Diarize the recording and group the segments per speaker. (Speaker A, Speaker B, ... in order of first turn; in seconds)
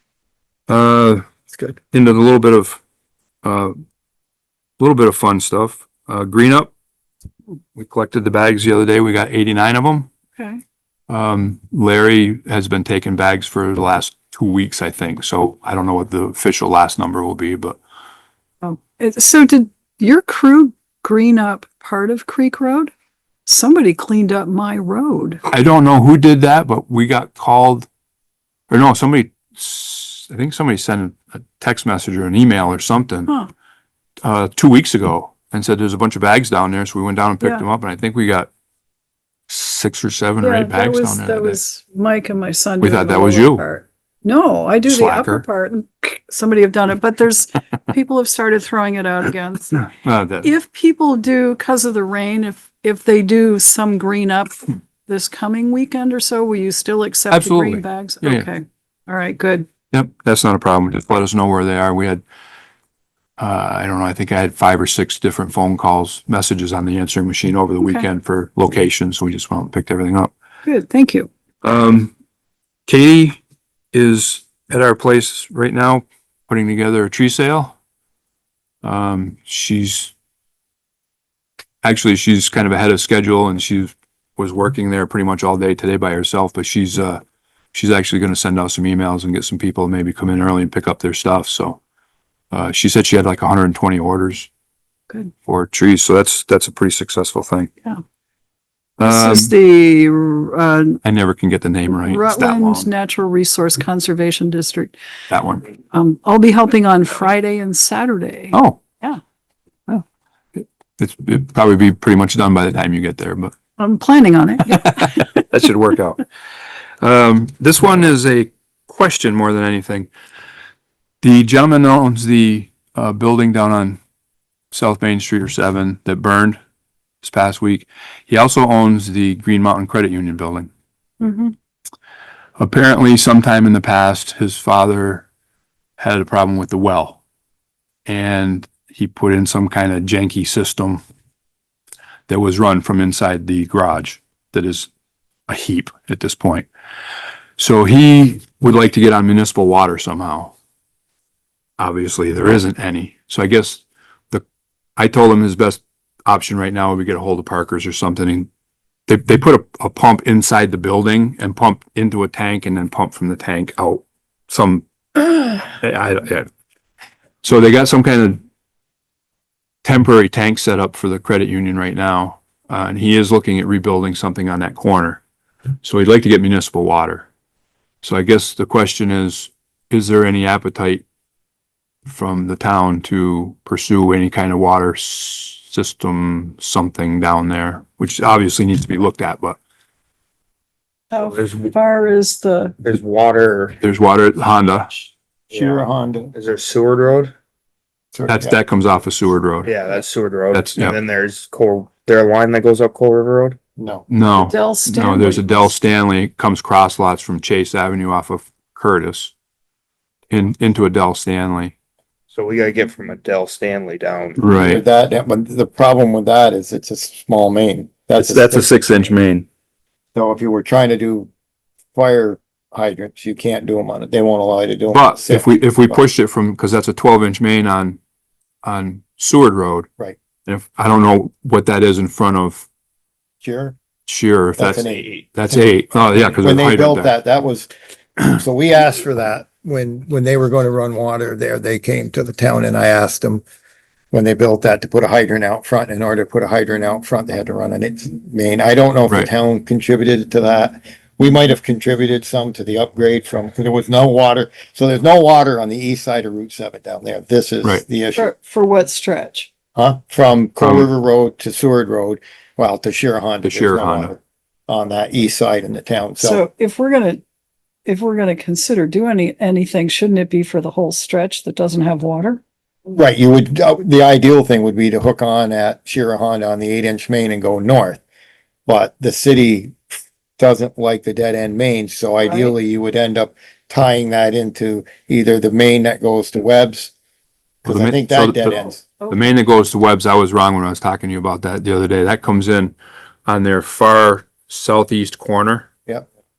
Speaker A: 0.7-1.2, 1.9-2.8, 3.4-3.7, 4.8-6.7, 7.7-10.1, 11.1-17.8, 25.4-27.9, 28.7-33.3, 34.2-38.5, 39.5-41.6, 42.8-43.6, 44.8-45.4, 49.9-50.5, 57.3-58.5, 59.9-62.2, 63.4-70.3, 71.6-72.1, 72.8-73.4, 73.9-77.8, 78.8-80.1, 81.8-87.2, 87.7-91.8, 92.5-94.5, 95.5-97.7, 99.0-99.5, 101.0-102.9, 105.3-105.7, 108.5-108.8, 111.0-113.5, 114.6-116.2, 117.0-120.1, 121.2-124.0, 124.7-126.6, 127.2-130.7, 132.6-135.2, 136.0-137.2, 138.1-141.0, 142.3-144.9, 145.5-146.7, 147.6-150.5, 151.8-154.4, 155.0-158.5, 159.1-166.5, 167.4-168.4, 169.8-175.2, 175.8-177.3, 178.0-181.0, 182.1-189.6, 193.8-195.1, 198.3-199.7, 200.5-200.9, 204.1-209.3, 210.3-211.7, 214.4-214.8, 218.2-219.4, 224.9-228.0, 228.6-229.9, 230.5-232.7, 234.1-237.1, 260.6-260.9, 263.4-264.1, 287.6-292.7, 293.2-295.7
Speaker B: 1.5-1.8, 195.5-196.3, 198.1-198.6, 203.8-204.1, 214.6-218.8, 220.1-221.3, 221.9-226.0, 233.4-233.8, 234.6-235.7, 236.3-243.4, 244.1-258.3, 259.7-266.4, 272.9-278.0, 278.7-279.8, 280.4-286.9, 287.6-288.9
Speaker C: 18.6-22.9, 23.4-25.4, 40.4-59.7, 67.8-68.0, 70.7-71.3, 99.0-101.0, 101.9-104.9, 105.9-109.2, 113.8-115.4, 131.2-131.5, 191.1-192.8, 204.4-205.7, 258.1-259.5, 266.2-267.2, 267.9-272.4, 282.2-282.5
Speaker D: 191.2-191.7, 192.8-193.8, 195.5-195.8, 196.3-197.3, 199.6-203.6, 212.3-214.4